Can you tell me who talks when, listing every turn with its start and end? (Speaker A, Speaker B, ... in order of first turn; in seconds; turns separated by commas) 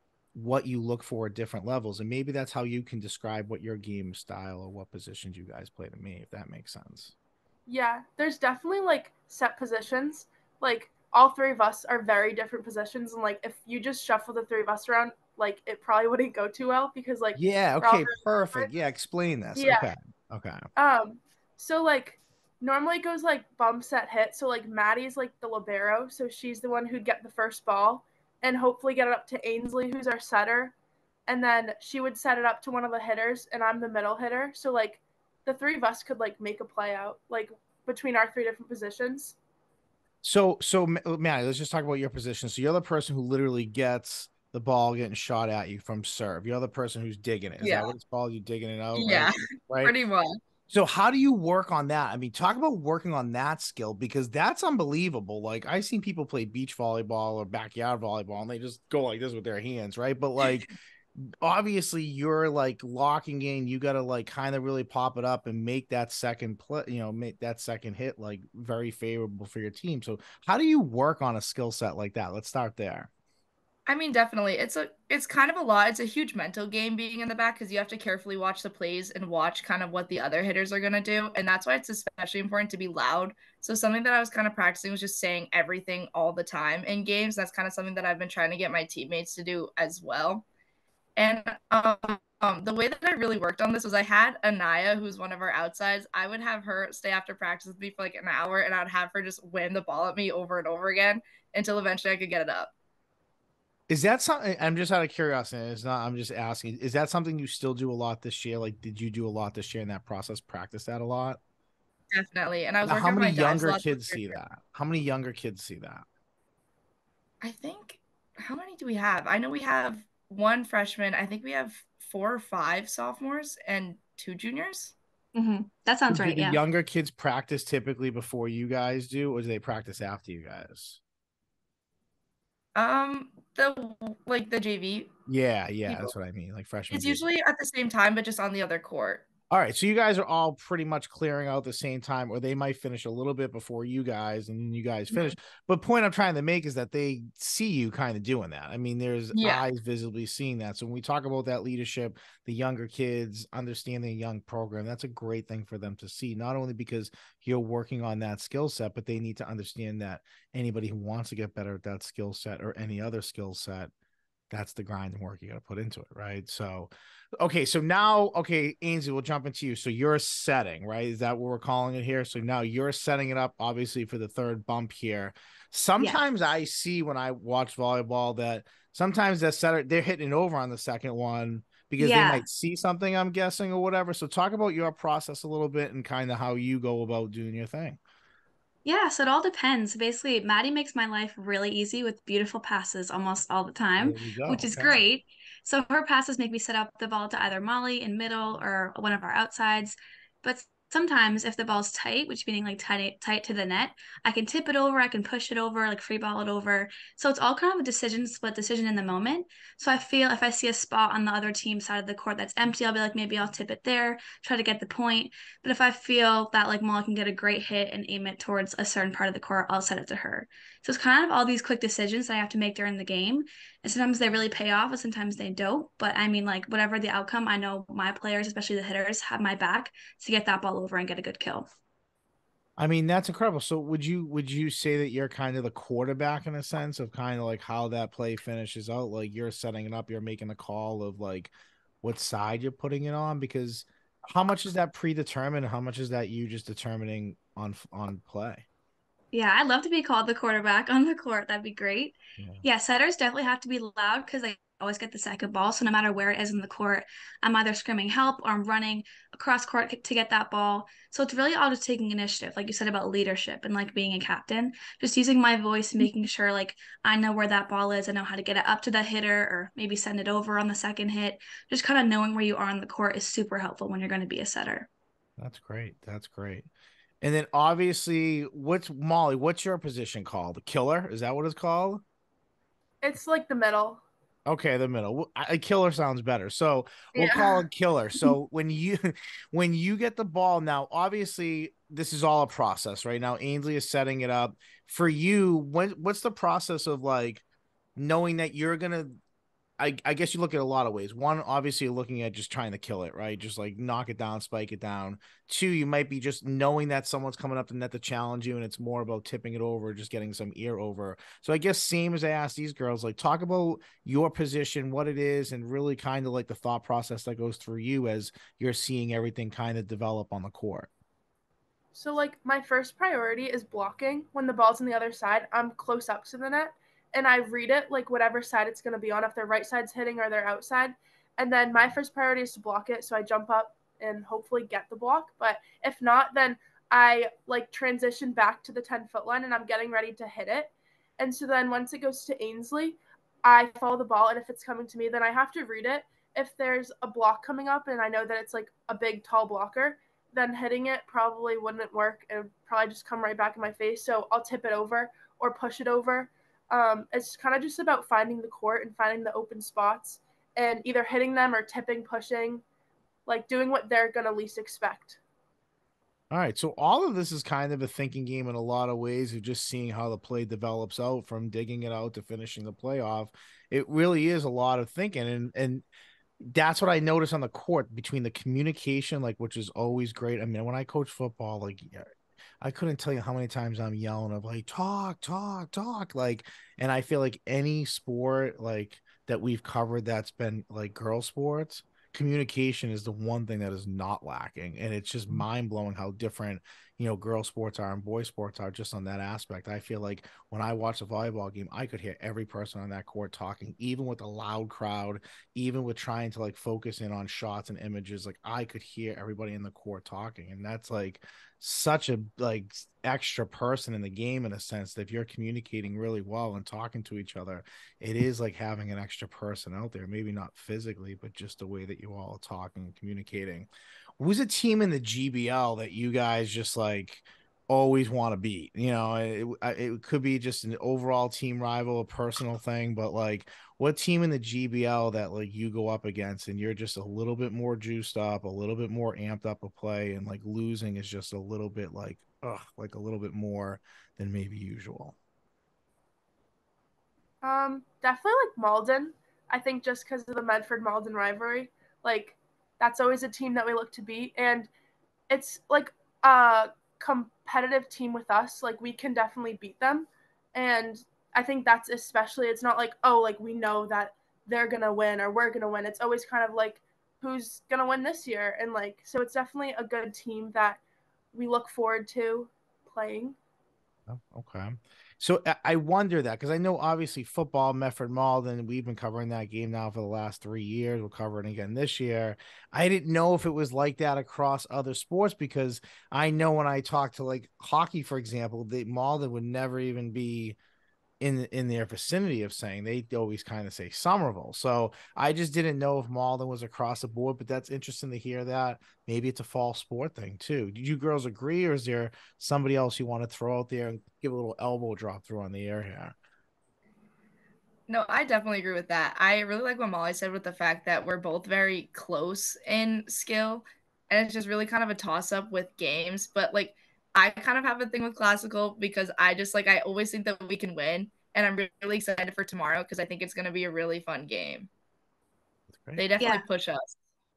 Speaker A: 0.3-7.1, Speaker B: 7.7-18.7, Speaker A: 17.4-20.7, Speaker B: 19.6-19.9, Speaker B: 20.8-30.7, Speaker B: 31.3-39.4, Speaker A: 40.2-49.9, Speaker C: 47.6-47.9, Speaker C: 49.0-50.4, Speaker A: 50.7-73.1, Speaker C: 73.9-90.5, Speaker C: 91.2-102.7, Speaker A: 103.9-111.4, Speaker C: 112.1-114.3, Speaker A: 112.8-116.0, Speaker C: 117.4-125.0, Speaker D: 125.3-126.6, Speaker A: 126.1-131.0, Speaker C: 132.8-135.1, Speaker A: 135.3-137.2, Speaker C: 135.9-136.1, Speaker C: 136.9-139.2, Speaker A: 139.5-163.9, Speaker C: 149.3-149.6, Speaker A: 164.5-188.0, Speaker D: 182.0-182.4, Speaker D: 188.8-231.7, Speaker A: 194.0-195.0, Speaker A: 232.8-248.7, Speaker D: 249.3-274.9, Speaker A: 252.4-252.7, Speaker A: 275.4-276.7, Speaker A: 277.2-282.0, Speaker B: 283.0-284.0, Speaker A: 284.5-297.4, Speaker B: 287.1-287.7, Speaker A: 298.0-299.2, Speaker A: 299.8-320.9, Speaker B: 321.9-362.6, Speaker B: 363.3-365.2, Speaker A: 366.3-375.9, Speaker A: 376.4-382.1, Speaker A: 382.6-445.2, Speaker B: 447.4-454.7, Speaker B: 455.3-470.8, Speaker B: 471.3-473.4, Speaker A: 474.1-490.6, Speaker A: 491.2-506.1, Speaker C: 507.9-524.7, Speaker A: 525.7-526.0, Speaker C: 526.0-527.0, Speaker D: 526.2-526.5